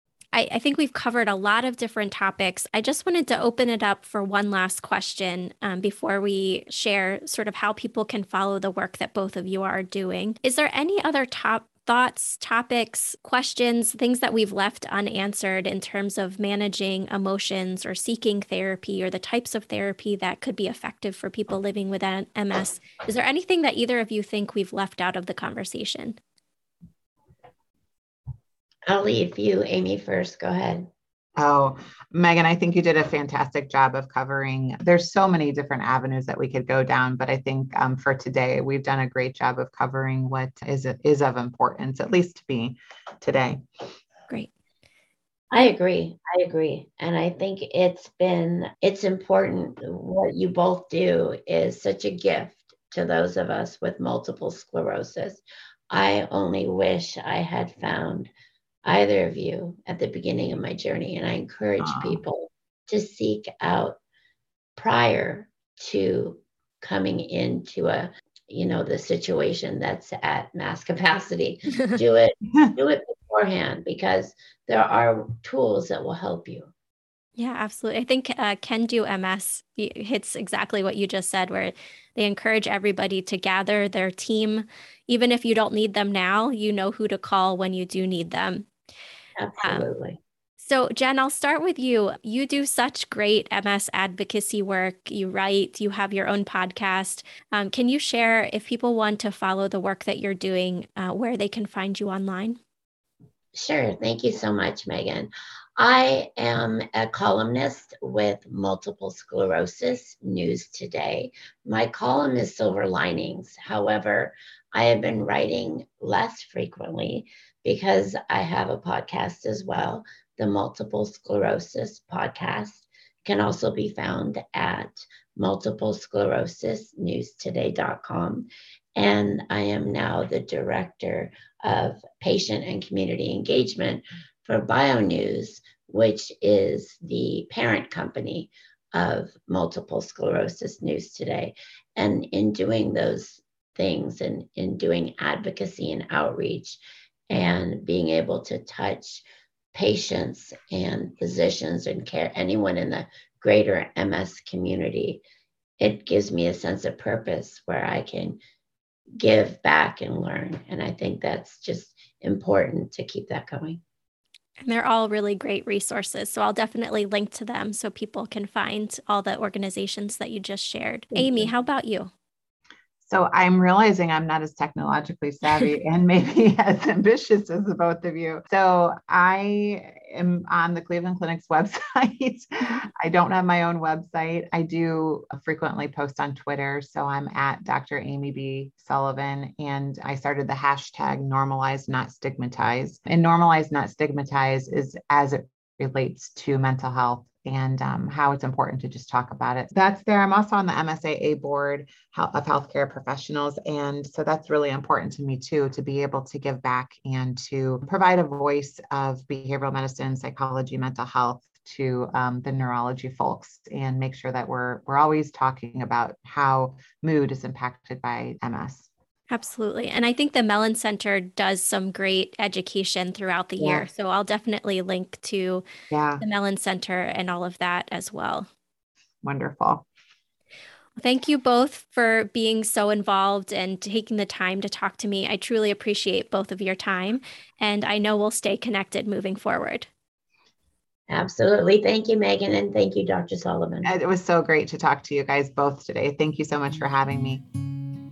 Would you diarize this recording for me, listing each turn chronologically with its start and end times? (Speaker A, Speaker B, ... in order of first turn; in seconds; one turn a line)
Speaker A: 0.3-26.2
Speaker B: 28.9-30.9
Speaker C: 31.4-43.6
Speaker B: 45.5-58.3
Speaker B: 58.9-64.0
Speaker C: 61.8-62.2
Speaker B: 64.8-76.7
Speaker A: 77.4-88.7
Speaker B: 89.4-90.2
Speaker A: 90.6-102.6
Speaker B: 103.5-146.8
Speaker B: 147.3-155.2
Speaker B: 155.8-158.4
Speaker B: 159.2-163.8
Speaker A: 164.6-172.1
Speaker C: 171.2-171.5
Speaker C: 173.0-218.9
Speaker A: 219.3-225.7
Speaker C: 223.6-223.9
Speaker C: 225.9-226.2
Speaker A: 226.2-228.5
Speaker C: 229.2-229.8
Speaker A: 231.0-239.9
Speaker B: 241.1-243.9
Speaker C: 243.8-247.4